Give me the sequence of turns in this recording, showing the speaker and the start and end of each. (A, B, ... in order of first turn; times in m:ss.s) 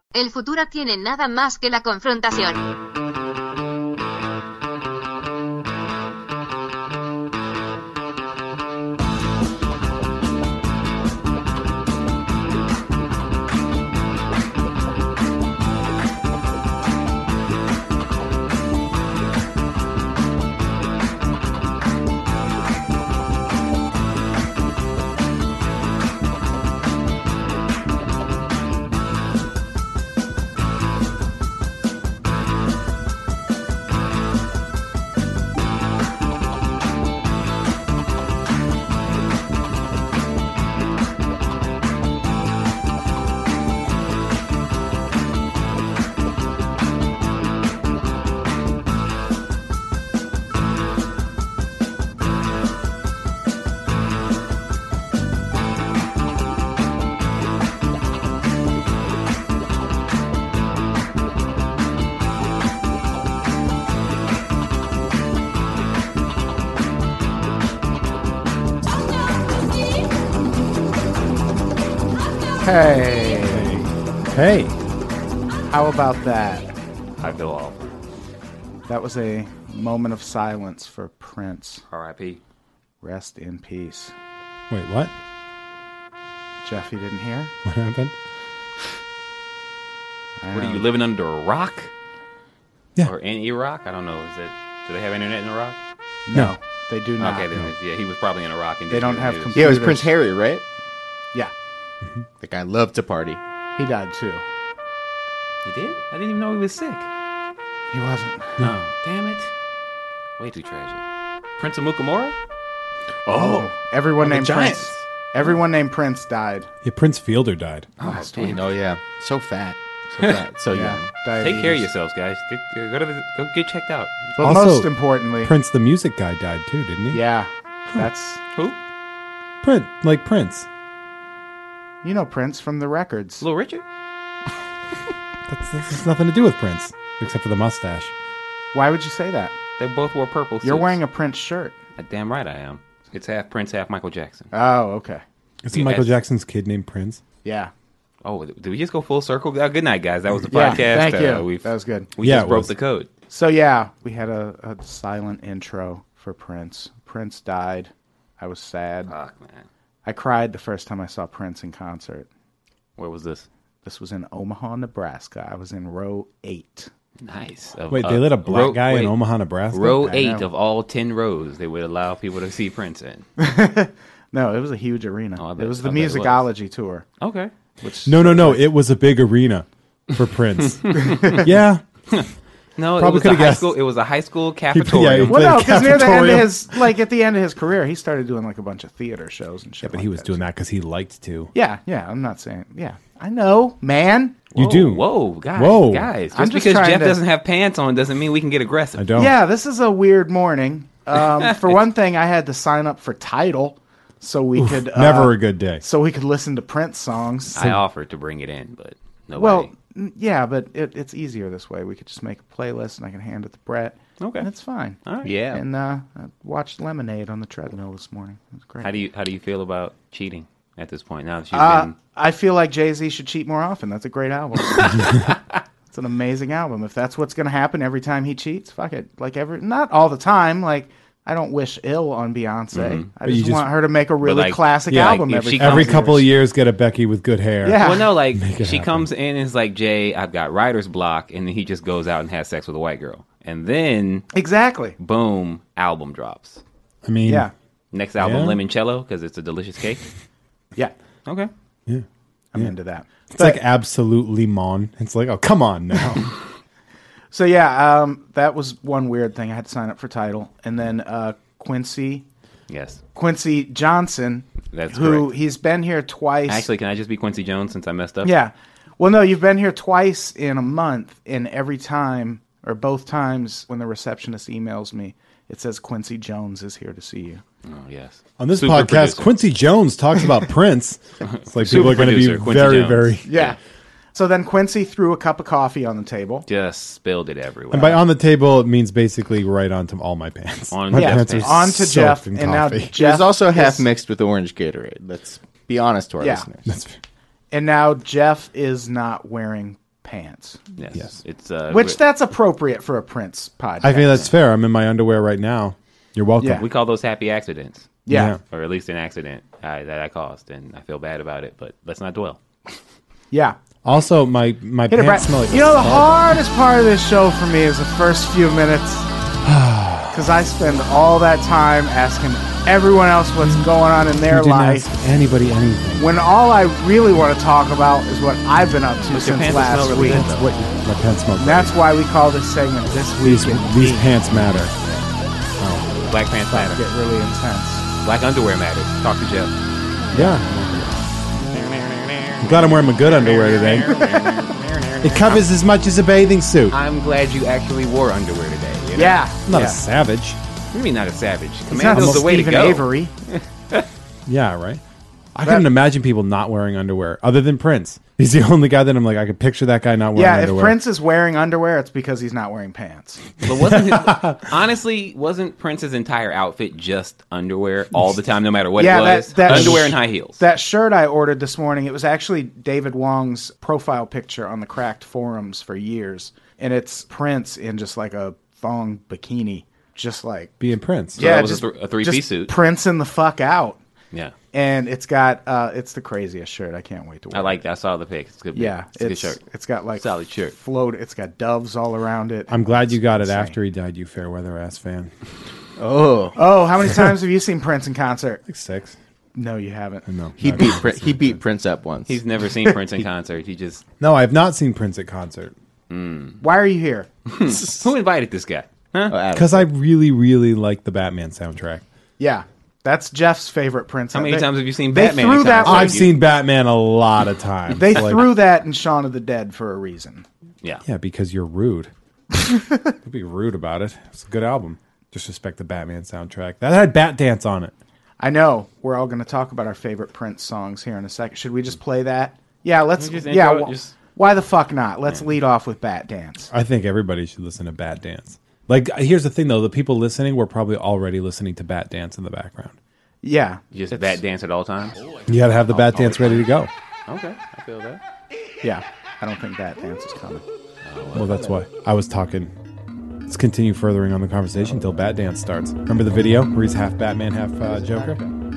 0:00.1-0:02.6 A
1:12.6-1:13.7 B
1:13.5-1:14.8 C
1:15.7-1:16.7 B
1:17.2-1:17.9 D
1:18.9-1:21.8 B
1:21.9-1:22.4 D
1:23.0-1:24.1 B
1:24.7-1:25.1 C
1:26.6-1:27.5 B
1:27.6-1:28.1 C
1:30.4-1:30.9 B
1:30.5-1:31.9 D
1:33.0-1:35.8 D
1:36.3-1:37.6 B
1:37.2-1:39.7 D
1:38.9-1:40.2 B
1:39.5-1:40.6 E
1:42.4-1:43.4 E
1:43.8-1:44.4 B
1:45.6-1:47.1 D
1:47.9-1:48.7 B
1:48.6-1:49.5 D
1:50.4-1:51.0 D
1:51.6-1:52.4 D
1:53.3-1:53.7 E
1:53.4-1:56.7 B
1:54.2-1:54.9 E
1:56.8-1:57.9 C
1:58.0-1:58.6 D
1:58.1-1:58.6 B
1:58.4-2:01.1 E
2:00.7-2:01.9 B
2:01.4-2:04.3 D
2:04.4-2:07.2 C
2:04.4-2:05.5 B
2:07.1-2:08.4 B
2:09.6-2:10.7 C
2:12.0-2:13.4 B
2:13.4-2:13.8 D
2:15.5-2:18.1 C
2:18.7-2:19.6 B
2:19.8-2:21.0 D
2:20.6-2:21.8 B
2:22.0-2:24.5 D
2:24.5-2:25.2 B
2:25.6-2:27.2 C
2:25.7-2:26.1 D
2:27.4-2:27.7 B
2:28.2-2:33.1 D
2:30.5-2:32.1 B
2:32.2-2:32.7 C
2:33.3-2:39.1 B
2:39.1-2:39.6 D
2:40.0-2:42.3 B
2:43.0-2:43.5 D
2:43.8-2:46.9 B
2:47.2-2:49.2 D
2:47.9-2:50.0 C
2:49.7-2:53.2 D
2:49.8-2:50.5 B
2:53.4-2:57.1 B
2:55.4-2:56.5 D
2:57.2-2:57.5 D
2:57.8-2:58.7 B
2:58.0-3:01.8 C
3:00.8-3:01.4 D
3:02.8-3:05.8 D
3:03.0-3:03.7 C
3:04.7-3:06.9 C
3:05.2-3:10.4 B
3:09.8-3:11.5 C
3:11.5-3:14.4 B
3:14.5-3:19.1 D
3:14.6-3:16.1 C
3:16.3-3:17.2 B
3:19.0-3:19.4 C
3:19.2-3:27.7 B
3:21.4-3:21.8 D
3:24.6-3:25.8 C
3:27.5-3:29.7 D
3:29.4-3:39.0 B
3:34.2-3:34.5 D
3:35.0-3:35.6 D
3:38.8-3:41.9 D
3:41.5-3:45.3 B
3:45.9-3:56.3 B
3:52.7-3:53.1 D
3:53.2-3:53.7 C
3:54.2-3:56.1 D
3:54.9-3:59.1 C
3:57.6-3:58.2 B
3:57.7-4:04.3 D
4:04.3-4:05.0 B
4:05.0-4:06.6 D
4:07.0-4:07.5 C
4:07.3-4:07.5 B
4:07.9-4:10.0 D
4:08.2-4:08.6 C
4:11.3-4:11.5 D
4:12.5-4:13.6 B
4:13.3-4:16.3 C
4:17.3-4:22.3 B
4:22.7-4:23.0 D
4:23.2-4:26.7 B
4:24.7-4:25.4 D
4:26.5-4:28.3 D
4:28.2-4:37.4 B
4:37.7-4:39.5 D
4:38.4-4:43.3 C
4:41.2-4:43.6 D
4:43.3-4:43.6 B
4:44.1-4:46.5 B
4:46.5-4:48.0 D
4:47.7-4:52.9 C
4:50.7-4:51.7 D
4:50.9-4:53.9 B
4:52.9-4:56.7 E
4:56.2-4:56.5 B
4:56.7-4:57.0 C
4:57.5-5:00.6 B
5:00.8-5:02.0 D
5:01.7-5:04.3 B
5:03.8-5:06.6 C
5:06.4-5:06.7 B
5:06.5-5:08.0 D
5:08.1-5:08.4 B
5:08.1-5:08.4 C
5:08.5-5:12.4 D
5:13.3-5:13.6 B
5:13.8-5:16.4 C
5:14.9-5:19.1 B
5:19.4-5:20.3 C
5:20.1-5:24.9 B
5:23.4-5:23.7 C
5:24.3-5:26.2 C
5:26.0-5:30.3 B
5:29.1-5:30.4 D
5:29.9-5:31.8 C
5:31.4-5:34.2 B
5:33.2-5:34.7 C
5:35.6-5:36.0 C
5:36.1-5:36.9 D
5:36.5-5:37.9 B
5:38.0-5:39.5 D
5:40.1-5:41.1 C
5:42.4-5:44.2 C
5:43.2-5:45.4 D
5:45.0-5:46.8 C
5:46.7-5:49.2 D
5:48.9-5:49.8 B
5:49.5-5:50.4 C
5:50.7-5:53.8 D
5:51.7-5:53.1 B
5:51.9-5:52.4 C
5:54.3-5:54.8 C
5:55.4-6:00.8 C
6:00.2-6:03.3 B
6:03.4-6:10.4 D
6:03.7-6:04.4 C
6:08.8-6:20.6 B
6:09.5-6:09.8 C
6:20.6-6:21.2 C
6:21.2-6:22.6 D
6:21.2-6:23.8 B
6:24.5-6:27.6 B
6:27.3-6:29.4 D
6:28.5-6:33.6 B
6:30.0-6:30.6 D
6:32.5-6:35.1 C
6:35.8-6:36.4 E
6:36.4-6:38.4 B
6:38.5-6:39.0 C
6:39.4-6:40.1 B
6:40.1-6:41.4 C
6:40.4-6:42.2 E
6:42.1-6:43.8 D
6:44.0-6:45.5 C
6:45.9-6:46.4 D
6:46.4-6:47.1 B
6:47.3-6:49.2 D
6:49.1-6:49.7 E
6:49.3-6:51.8 C
6:52.2-6:56.1 B
6:54.1-6:56.1 D
6:55.6-6:58.4 C
6:57.7-7:00.3 B
7:00.8-7:01.9 C
7:02.3-7:02.9 B
7:03.0-7:07.7 C
7:08.2-7:16.5 B
7:13.0-7:14.0 D
7:16.5-7:22.8 C
7:23.2-7:24.2 B
7:23.7-7:25.0 D
7:25.3-7:26.7 C
7:25.7-7:26.5 D
7:27.1-7:28.0 D
7:28.6-7:30.4 B
7:30.8-7:31.4 D
7:31.1-7:32.5 C
7:33.3-7:38.2 C
7:37.8-7:38.3 E